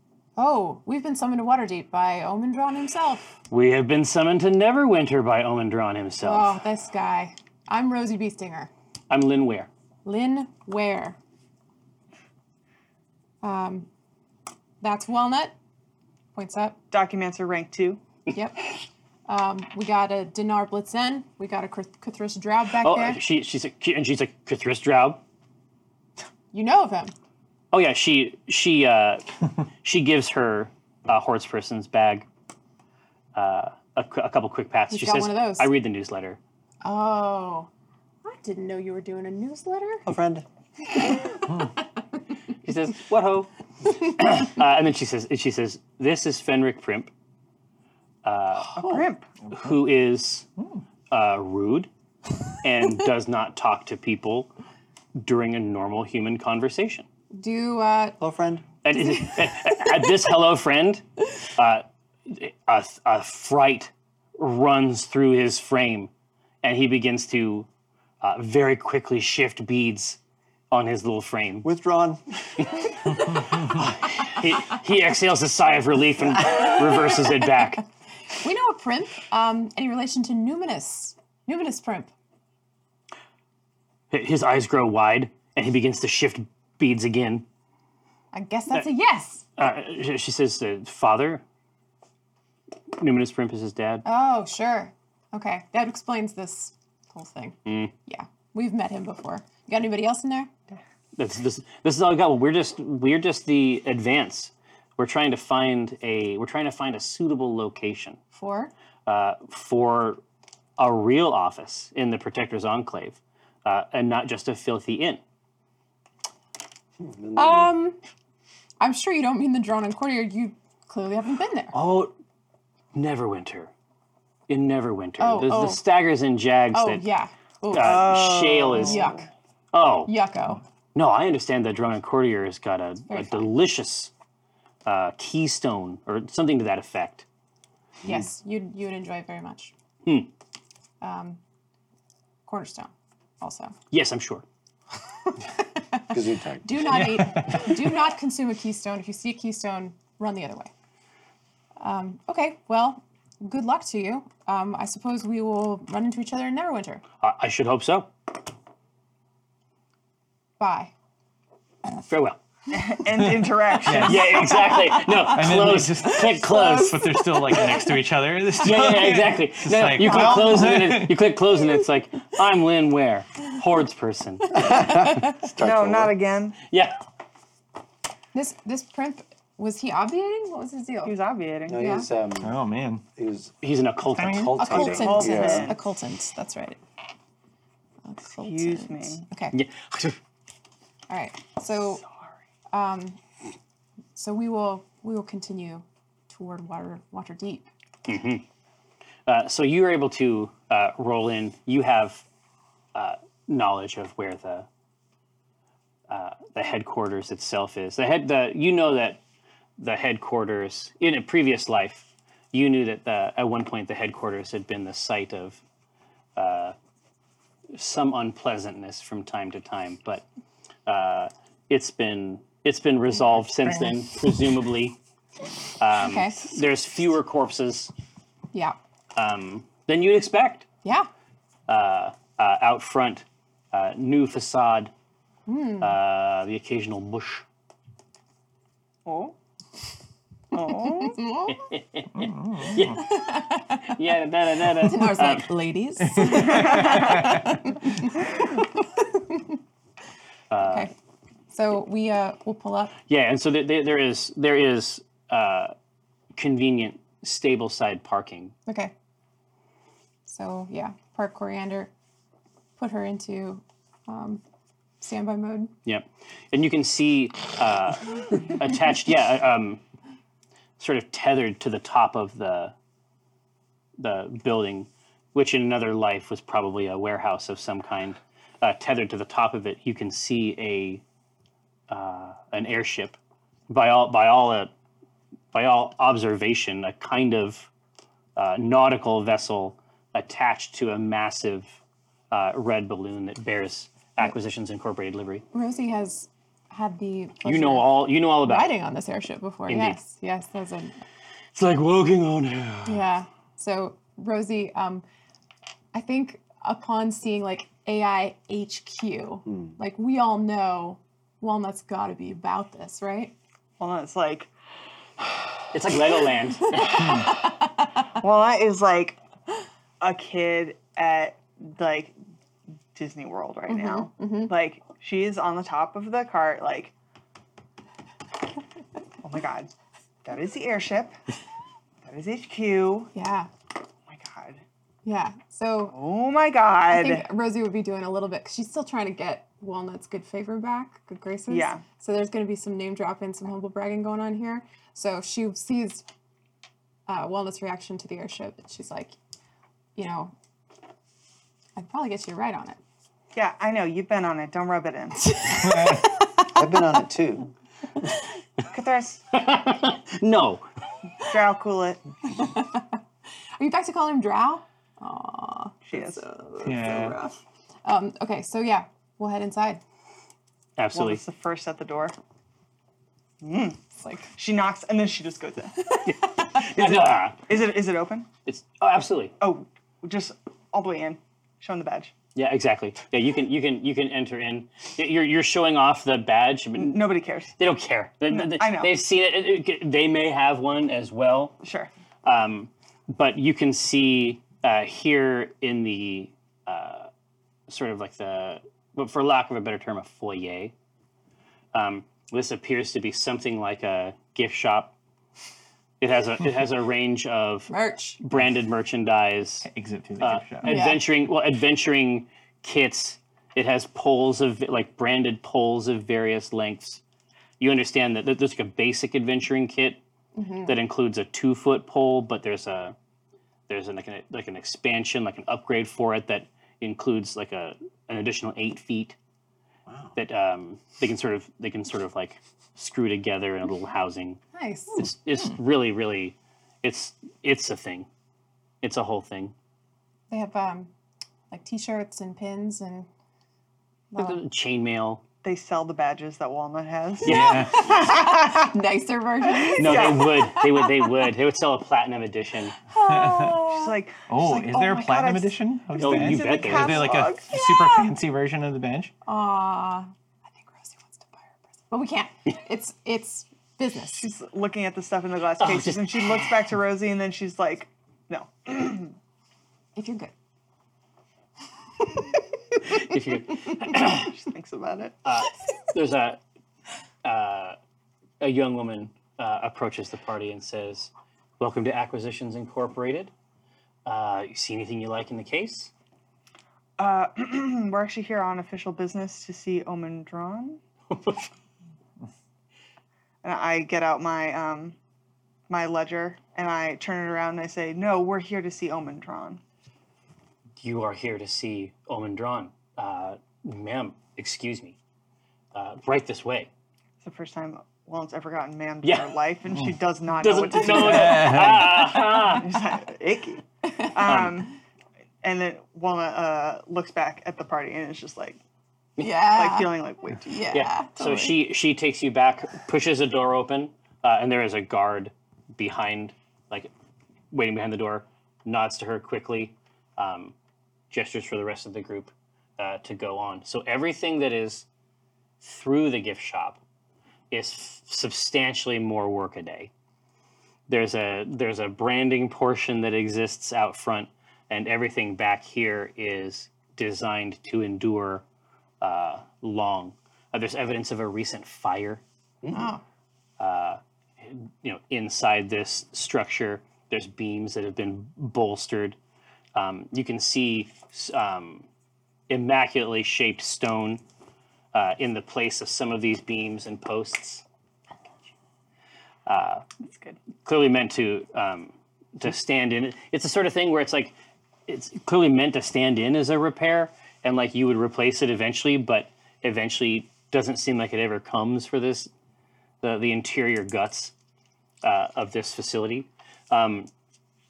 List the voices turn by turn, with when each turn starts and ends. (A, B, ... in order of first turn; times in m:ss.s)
0:00.4-0:03.4 A
0:03.5-0:06.6 B
0:06.2-0:08.7 A
0:09.1-0:09.7 B
0:10.0-0:11.2 A
0:13.4-0:13.9 A
0:14.8-0:15.5 A
0:16.4-0:16.8 A
0:16.9-0:18.0 C
0:18.3-0:18.7 A
0:19.3-0:23.2 A
0:22.8-0:25.2 B
0:26.5-0:27.1 A
0:27.7-0:29.3 B
0:29.8-0:32.3 B
0:33.4-0:36.4 B
0:34.9-0:35.7 A
0:36.8-0:37.7 A
0:38.2-0:40.1 A
0:40.1-0:40.4 D
0:42.6-0:47.1 B
0:48.2-0:50.5 B
0:48.7-0:49.3 C
0:51.1-0:51.9 B
0:52.6-0:54.5 B
0:55.2-0:57.1 B
0:57.3-0:58.2 A
0:58.2-0:58.6 D
0:58.8-1:06.1 B
1:06.6-1:07.7 B
1:08.2-1:10.2 B
1:10.7-1:11.7 B
1:11.6-1:12.2 D
1:12.6-1:17.8 B
1:18.4-1:22.1 A
1:24.1-1:27.4 B
1:28.3-1:29.5 A
1:29.6-1:31.4 B
1:33.0-1:34.0 B
1:34.0-1:40.5 A
1:37.7-1:37.9 B
1:41.2-1:48.2 B
1:48.3-1:48.7 A
1:49.1-1:50.2 B
1:50.8-1:55.2 B
1:57.0-1:57.7 D
1:57.4-1:58.0 A
1:58.8-2:01.8 A
2:01.7-2:02.2 B
2:02.9-2:03.7 B
2:04.5-2:07.0 B
2:05.2-2:05.8 A
2:06.7-2:08.2 A
2:07.7-2:09.1 B
2:07.7-2:09.2 C
2:08.7-2:09.3 A
2:09.7-2:10.1 B
2:10.1-2:10.6 A
2:11.0-2:14.1 B
2:13.1-2:13.5 A
2:14.8-2:17.2 B
2:18.0-2:19.7 A
2:20.0-2:20.3 B
2:21.0-2:21.4 A
2:22.5-2:23.8 A
2:23.9-2:24.4 B
2:25.6-2:30.7 A
2:26.1-2:27.2 D
2:26.9-2:27.7 E
2:31.8-2:37.0 A
2:37.2-2:38.1 B
2:40.6-2:40.9 A
2:42.1-2:42.4 B
2:42.7-2:45.0 C
2:43.2-2:44.5 E
2:44.0-2:47.1 B
2:44.7-2:45.0 A
2:45.2-2:51.3 E
2:46.2-2:47.4 A
2:48.6-2:54.6 B
2:54.6-2:56.2 D
2:54.6-2:55.4 A
2:55.6-2:56.6 C
2:56.7-2:57.0 B
2:58.3-3:01.2 A
3:01.0-3:01.9 C
3:01.7-3:02.6 D
3:01.8-3:02.1 A
3:02.4-3:03.0 E
3:03.2-3:03.5 D
3:03.6-3:04.6 B
3:04.1-3:04.6 E
3:04.2-3:05.8 D
3:04.6-3:06.8 A
3:04.7-3:05.8 C
3:08.0-3:09.6 A
3:08.4-3:09.3 C
3:09.5-3:10.2 B
3:11.1-3:12.0 A
3:12.7-3:13.2 A
3:14.2-3:17.7 A
3:18.1-3:18.4 B
3:19.3-3:22.2 B
3:23.0-3:24.7 B
3:26.1-3:29.2 B
3:29.8-3:35.6 B
3:36.4-3:36.8 B
3:37.7-3:40.2 B
3:40.9-3:45.0 B
3:45.8-3:47.9 B
3:46.0-3:46.4 A
3:49.2-3:50.7 B
3:50.8-3:51.1 A
3:51.7-3:54.9 B
3:55.5-3:56.0 A
3:55.8-3:57.4 B
3:59.0-3:59.4 C
4:00.5-4:01.3 C
4:01.0-4:01.6 A
4:01.5-4:03.3 B
4:02.2-4:03.0 E
4:02.9-4:04.0 A
4:03.8-4:05.5 B
4:04.8-4:09.6 A
4:06.2-4:07.4 E
4:10.5-4:10.9 B
4:10.6-4:10.9 A
4:11.5-4:13.0 A
4:13.1-4:15.7 B
4:16.4-4:18.5 B
4:18.7-4:18.9 A
4:20.3-4:21.9 A
4:22.8-4:24.4 A
4:25.0-4:25.7 A
4:25.9-4:29.8 B
4:30.8-4:32.7 B
4:34.0-4:41.0 B
4:41.9-4:43.2 B
4:43.7-4:44.7 B
4:45.5-4:47.7 B
4:48.4-4:51.7 B
4:52.3-4:55.4 B
4:55.5-5:01.0 A
4:57.4-4:58.8 B
4:59.7-5:00.0 B
5:01.5-5:03.0 B
5:02.9-5:05.0 A
5:05.9-5:13.4 A
5:09.5-5:09.7 D
5:13.8-5:14.5 C
5:15.7-5:17.2 B
5:16.7-5:17.4 A
5:16.9-5:17.4 C
5:18.2-5:19.2 C
5:20.0-5:22.1 C
5:22.9-5:26.9 C
5:23.7-5:24.5 A
5:29.2-5:29.7 C
5:30.2-5:31.2 C
5:32.0-5:33.1 C
5:33.1-5:33.5 A
5:34.1-5:34.6 C
5:35.0-5:36.0 A
5:35.9-5:37.3 C
5:36.9-5:46.1 A
5:41.5-5:41.8 C
5:47.1-5:49.2 A
5:50.0-5:50.3 A
5:51.8-5:52.8 A
5:53.4-5:55.4 C
5:55.3-5:56.5 A
5:55.7-5:56.0 E
5:56.4-5:57.5 D
5:58.7-5:59.2 C
5:59.3-6:00.6 B
6:01.2-6:02.0 C
6:02.3-6:03.0 A
6:03.6-6:09.8 A
6:05.9-6:06.2 C
6:06.6-6:07.2 E
6:10.8-6:11.2 B
6:10.9-6:12.1 C
6:13.4-6:13.8 C
6:14.0-6:14.3 A
6:14.4-6:16.0 C
6:15.8-6:16.7 A
6:16.0-6:17.6 B
6:16.8-6:18.3 C
6:18.5-6:19.4 B
6:19.4-6:22.1 C
6:22.4-6:27.1 B
6:26.8-6:27.5 C
6:27.6-6:31.6 B
6:28.3-6:28.9 C
6:31.6-6:31.9 C
6:32.2-6:37.1 B
6:37.7-6:40.7 B
6:41.7-6:44.9 B
6:46.0-6:49.7 B
6:47.7-6:48.2 A
6:49.6-6:50.9 E
6:50.2-6:57.0 B
6:50.6-6:51.0 A
6:57.6-7:00.0 B
7:00.4-7:00.8 A
7:00.6-7:03.0 B
7:03.7-7:09.2 B
7:10.2-7:14.4 B
7:14.5-7:15.0 A
7:15.0-7:18.1 B
7:18.8-7:19.5 B
7:20.3-7:20.9 A
7:21.5-7:23.1 A
7:24.1-7:24.4 A
7:24.2-7:25.2 B
7:25.4-7:28.7 C
7:27.3-7:28.0 E
7:27.3-7:31.1 A
7:27.3-7:27.6 B
7:29.5-7:30.4 C
7:29.8-7:32.8 B
7:32.9-7:34.0 A
7:33.0-7:33.6 E
7:33.1-7:37.8 C
7:34.3-7:39.1 E
7:36.0-7:37.1 B
7:39.2-7:44.3 A
7:44.2-7:49.2 C
7:45.6-7:46.6 B
7:50.0-7:50.3 A
7:52.9-7:54.3 B
7:53.9-7:55.2 C
7:55.2-7:56.4 B
7:57.2-7:57.8 B
7:58.4-8:03.3 B
8:04.0-8:05.9 B
8:07.0-8:10.8 C
8:11.1-8:11.5 B
8:13.4-8:15.0 C
8:15.7-8:19.6 C
8:20.8-8:25.0 B
8:25.7-8:26.7 B
8:27.2-8:34.8 C
8:29.0-8:29.3 B
8:30.4-8:32.7 B
8:31.0-8:31.9 E
8:34.2-8:34.6 B
8:35.4-8:38.6 C
8:39.2-8:41.6 A
8:39.4-8:40.7 C
8:40.7-8:46.9 B
8:47.5-8:50.5 B
8:51.1-8:54.9 B
8:55.6-8:56.8 B
8:57.5-8:59.9 B
9:00.9-9:08.4 B
9:09.0-9:12.2 B
9:12.6-9:12.9 D
9:12.7-9:13.0 A
9:13.6-9:19.2 B
9:19.8-9:21.9 B
9:22.5-9:24.2 B
9:24.9-9:27.6 B
9:29.5-9:29.8 B
9:30.1-9:30.4 C
9:30.6-9:34.4 B
9:34.9-9:42.3 B
9:43.0-9:44.3 B
9:45.0-9:47.1 B